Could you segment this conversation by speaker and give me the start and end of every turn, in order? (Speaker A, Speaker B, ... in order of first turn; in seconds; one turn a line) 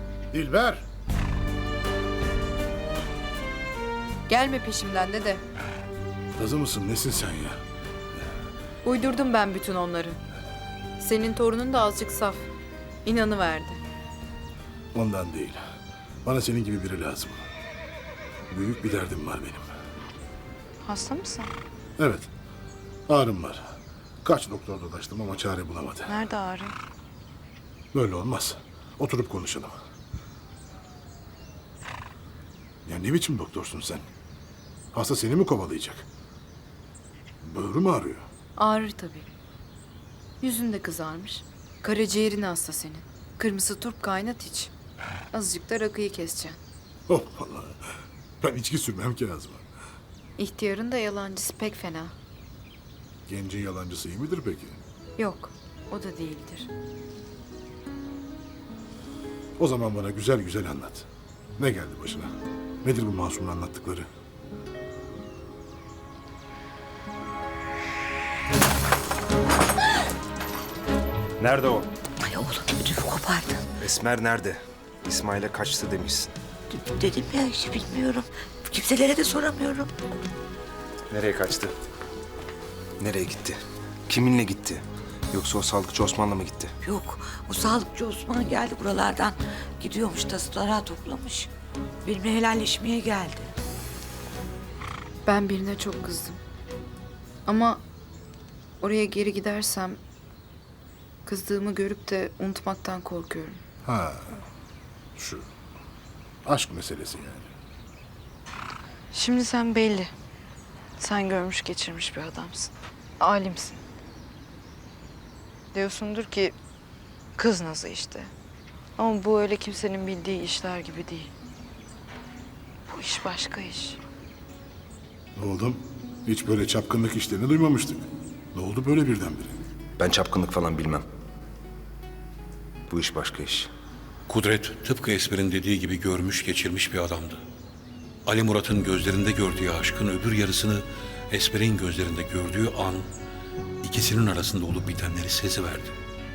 Speaker A: 0.3-0.8
Speaker B: 4.3-5.4
Speaker A: 6.3-7.6
Speaker B: 8.8-10.2
Speaker B: 11.0-12.5
Speaker B: 13.0-13.8
Speaker A: 14.9-15.6
Speaker A: 16.2-17.4
Speaker A: 18.5-19.7
Speaker B: 20.8-21.5
Speaker A: 22.0-22.3
Speaker A: 23.1-23.6
Speaker A: 24.2-26.1
Speaker B: 26.1-26.7
Speaker A: 27.9-29.8
Speaker A: 32.9-34.0
Speaker A: 34.9-36.0
Speaker A: 37.4-38.2
Speaker B: 38.6-39.3
Speaker B: 40.4-44.7
Speaker B: 45.3-46.6
Speaker A: 47.1-47.8
Speaker A: 48.4-49.6
Speaker B: 50.4-52.1
Speaker A: 53.2-54.8
Speaker B: 55.2-56.7
Speaker A: 59.6-64.1
Speaker C: 71.4-71.9
Speaker D: 72.2-73.6
Speaker C: 73.8-76.3
Speaker D: 76.7-79.9
Speaker C: 81.1-81.7
Speaker C: 83.0-86.8
Speaker D: 86.8-91.5
Speaker D: 92.0-93.5
Speaker B: 95.2-96.4
Speaker B: 97.5-97.8
Speaker B: 98.8-100.0
Speaker B: 101.2-103.6
Speaker A: 103.8-104.4
Speaker A: 105.2-105.5
Speaker A: 106.4-107.5
Speaker B: 109.1-110.1
Speaker B: 111.0-113.8
Speaker B: 115.7-116.5
Speaker B: 117.4-118.3
Speaker B: 119.0-121.3
Speaker B: 122.9-124.0
Speaker A: 125.3-129.6
Speaker C: 130.0-131.1
Speaker C: 132.9-133.7
Speaker E: 134.3-137.4
Speaker E: 138.2-143.1
Speaker E: 143.8-145.9